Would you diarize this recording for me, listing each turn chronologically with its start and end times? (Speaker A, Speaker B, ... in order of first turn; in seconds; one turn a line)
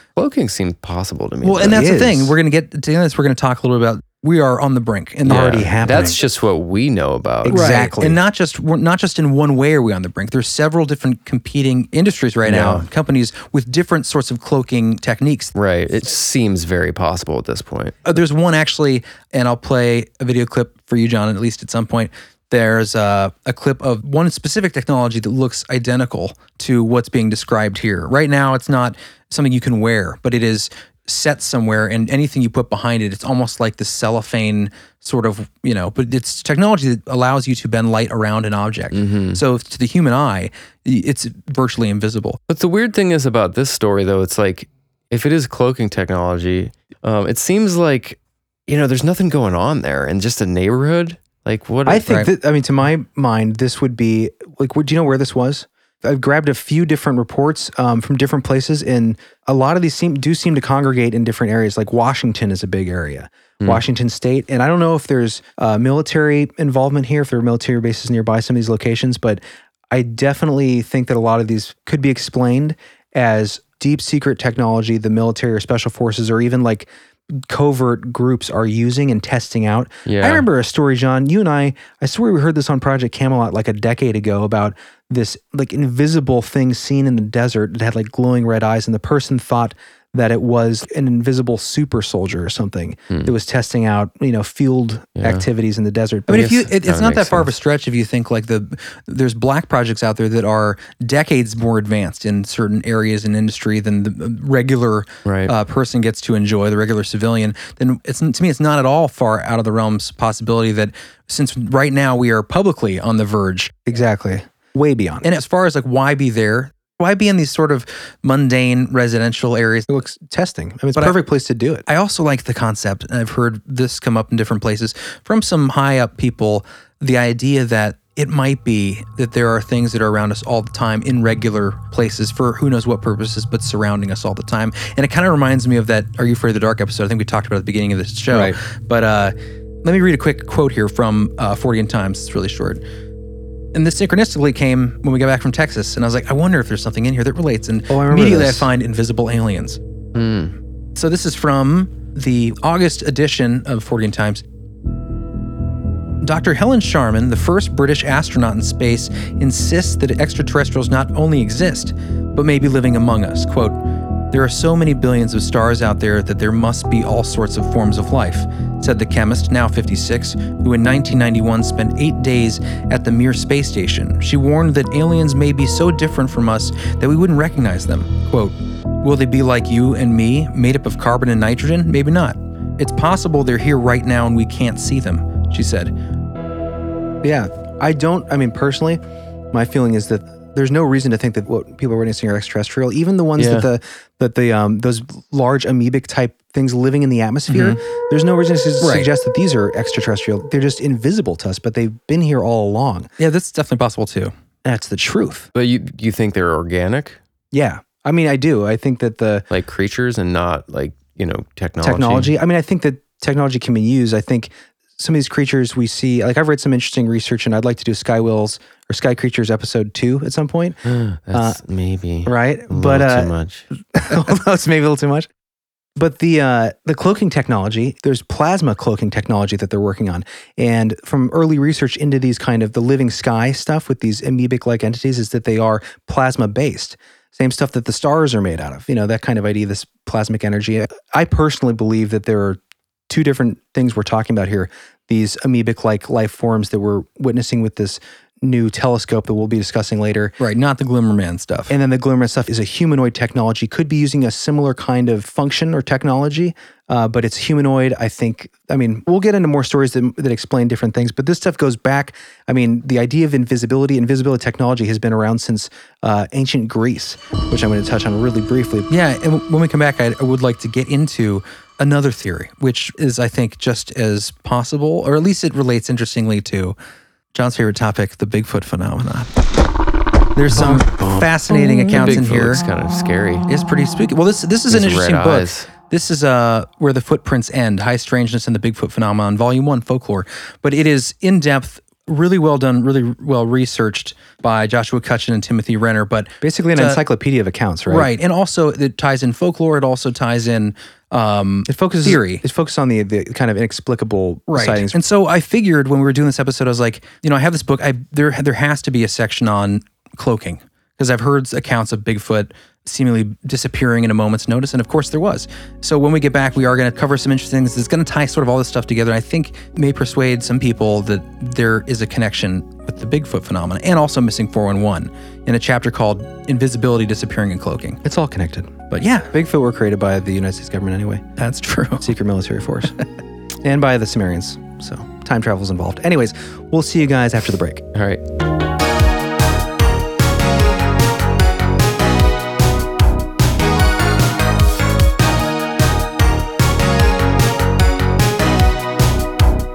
Speaker A: 0.2-1.8
Speaker B: 1.4-5.8
Speaker C: 1.6-2.4
Speaker A: 5.3-7.6
Speaker C: 5.4-6.2
Speaker C: 7.4-8.2
Speaker B: 7.5-15.5
Speaker A: 12.4-12.9
Speaker A: 15.6-18.0
Speaker B: 18.1-42.4
Speaker A: 38.9-39.4
Speaker A: 42.5-52.1
Speaker C: 51.9-96.7
Speaker A: 80.0-80.5
Speaker A: 95.2-95.5
Speaker B: 96.3-113.8
Speaker A: 96.4-97.5
Speaker A: 105.2-105.5
Speaker C: 113.9-115.3
Speaker B: 115.2-119.9
Speaker C: 119.9-121.8
Speaker B: 121.9-142.8
Speaker C: 138.3-138.6
Speaker B: 143.7-149.8
Speaker C: 147.9-148.7
Speaker A: 150.2-150.6
Speaker B: 151.0-154.4
Speaker B: 156.2-163.8
Speaker B: 164.3-185.9
Speaker C: 187.2-189.0
Speaker C: 189.5-203.1
Speaker A: 193.4-193.7
Speaker B: 197.5-197.8
Speaker B: 198.8-199.1
Speaker B: 203.2-204.3
Speaker C: 204.7-205.5
Speaker A: 205.5-207.2
Speaker C: 207.5-209.5
Speaker A: 209.5-212.3
Speaker C: 211.8-220.8
Speaker A: 220.8-223.7
Speaker C: 221.3-221.6
Speaker C: 222.2-223.3
Speaker C: 223.9-225.3
Speaker C: 226.0-250.3
Speaker B: 250.4-251.7
Speaker C: 251.7-268.9
Speaker B: 268.9-276.8
Speaker B: 277.3-279.3
Speaker B: 280.4-282.6
Speaker C: 280.5-281.3
Speaker A: 281.5-283.4
Speaker B: 283.5-297.0
Speaker A: 284.7-285.7
Speaker C: 296.4-298.1
Speaker B: 297.9-302.4
Speaker C: 301.7-305.0
Speaker B: 304.5-328.0
Speaker C: 328.0-331.2
Speaker B: 328.9-329.3
Speaker B: 331.4-332.1
Speaker C: 332.0-333.0
Speaker C: 333.6-337.8
Speaker A: 337.9-338.2